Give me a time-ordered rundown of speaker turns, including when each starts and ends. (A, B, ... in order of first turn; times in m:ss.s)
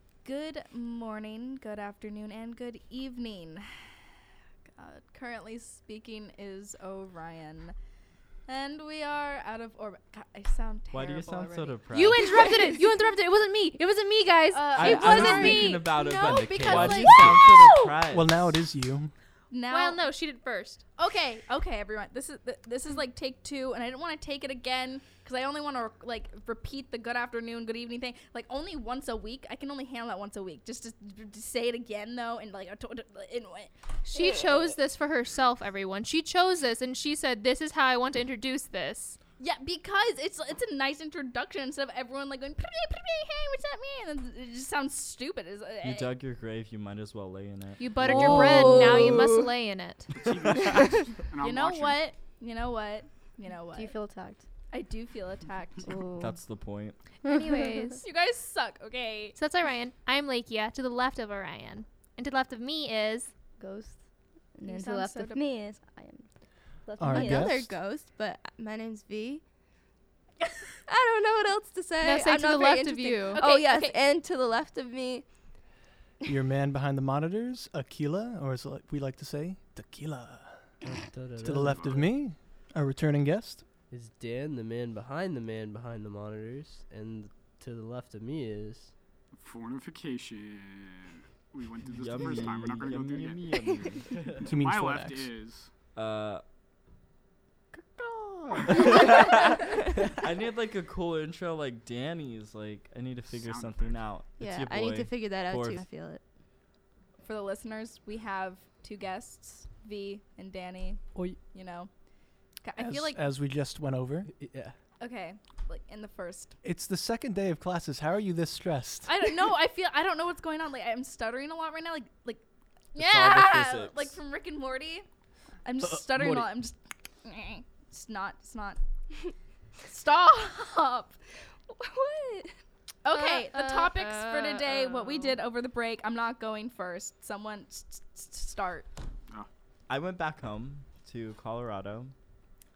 0:00.2-0:04.0 A
0:04.7-0:07.8 A
0:08.5-0:12.8 A
0:10.9-0:12.6 B
0:11.9-0:17.5 C
0:14.5-0:17.8 A
0:14.8-0:18.6 B
0:18.1-0:19.1 D
0:19.5-0:20.0 A
0:19.7-0:20.8 C
0:21.0-0:34.6 A
0:34.0-0:39.2 C
0:39.4-0:46.1 A
0:45.8-0:49.2 B
0:47.8-0:50.1 C
0:48.1-0:49.1 E
0:49.0-0:49.4 F
0:50.1-0:52.0 G
0:50.2-0:50.8 B
0:51.4-0:54.0 A
0:53.7-0:54.4 H
0:54.7-0:55.9 A
0:55.9-0:56.4 H
0:56.2-0:57.0 B
0:57.3-0:58.0 C
0:57.3-0:58.0 H
0:58.0-0:59.4 A
0:59.4-1:03.3 C
1:03.6-1:04.0 H
1:04.6-1:07.5 H
1:04.6-1:05.4 A
1:07.0-1:07.7 D
1:07.1-1:09.4 F
1:10.9-1:15.3 F
1:12.0-1:13.5 C
1:13.3-1:14.0 A
1:16.3-1:20.7 D
1:20.8-1:22.1 E
1:21.4-1:23.6 D
1:21.6-1:22.1 G
1:23.9-1:28.9 E
1:29.3-1:33.6 G
1:31.9-1:34.4 B
1:34.4-1:35.3 D
1:34.4-1:35.7 G
1:36.0-1:36.4 B
1:37.8-1:45.8 B
1:43.3-1:44.1 G
1:44.4-1:46.2 F
1:47.2-1:51.9 A
1:51.2-1:51.4 E
1:52.6-1:53.2 A
1:52.8-1:54.3 D
1:54.3-1:54.8 E
1:55.0-1:56.6 A
1:56.6-1:59.1 D
1:59.1-2:02.4 A
2:02.9-2:05.1 A
2:03.0-2:04.2 B
2:05.6-2:08.8 A
2:05.8-2:06.5 E
2:09.9-2:11.2 A
2:11.7-2:12.6 F
2:13.0-2:18.9 A
2:13.1-2:15.4 C
2:19.9-2:22.1 B